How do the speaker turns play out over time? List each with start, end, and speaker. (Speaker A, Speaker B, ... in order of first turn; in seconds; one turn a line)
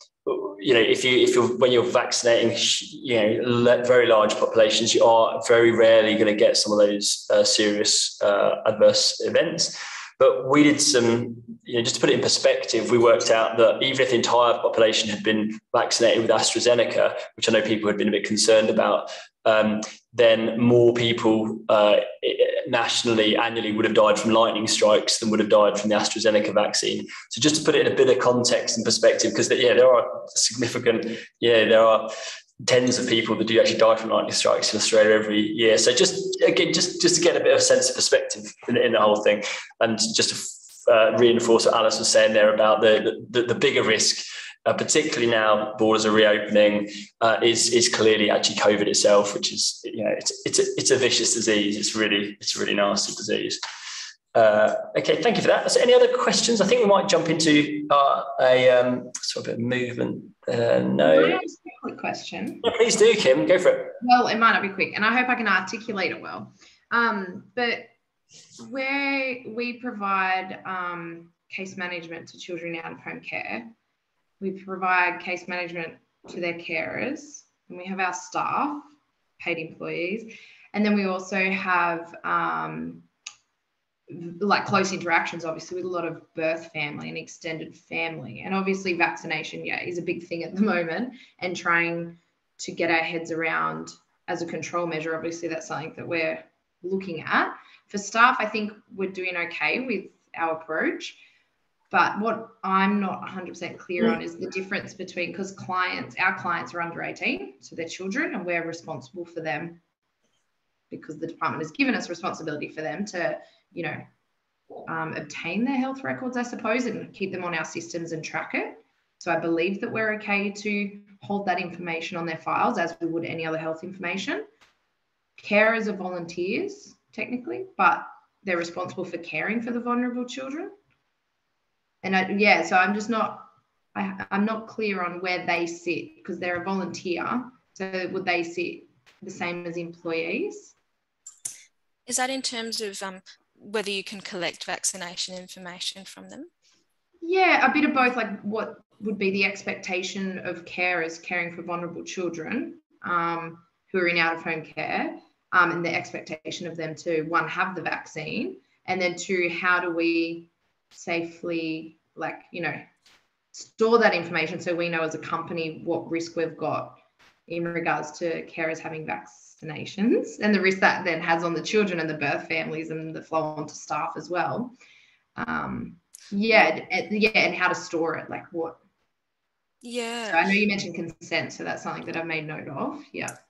Speaker A: 0.2-53.6
Speaker A: 54.3-61.4
Speaker B: 61.0-62.6
Speaker A: 62.6-64.0
Speaker B: 64.0-67.9
Speaker B: 68.6-73.7
Speaker B: 74.4-83.1
Speaker B: 84.1-101.2
Speaker B: 101.9-109.8
Speaker B: 110.9-114.1
Speaker B: 114.8-124.5
Speaker B: 125.4-130.8
Speaker B: 132.0-140.7
Speaker C: 142.1-146.5
Speaker B: 147.2-162.8
Speaker B: 163.5-174.8
Speaker B: 175.3-178.8
Speaker C: 179.8-180.5
Speaker B: 180.2-183.4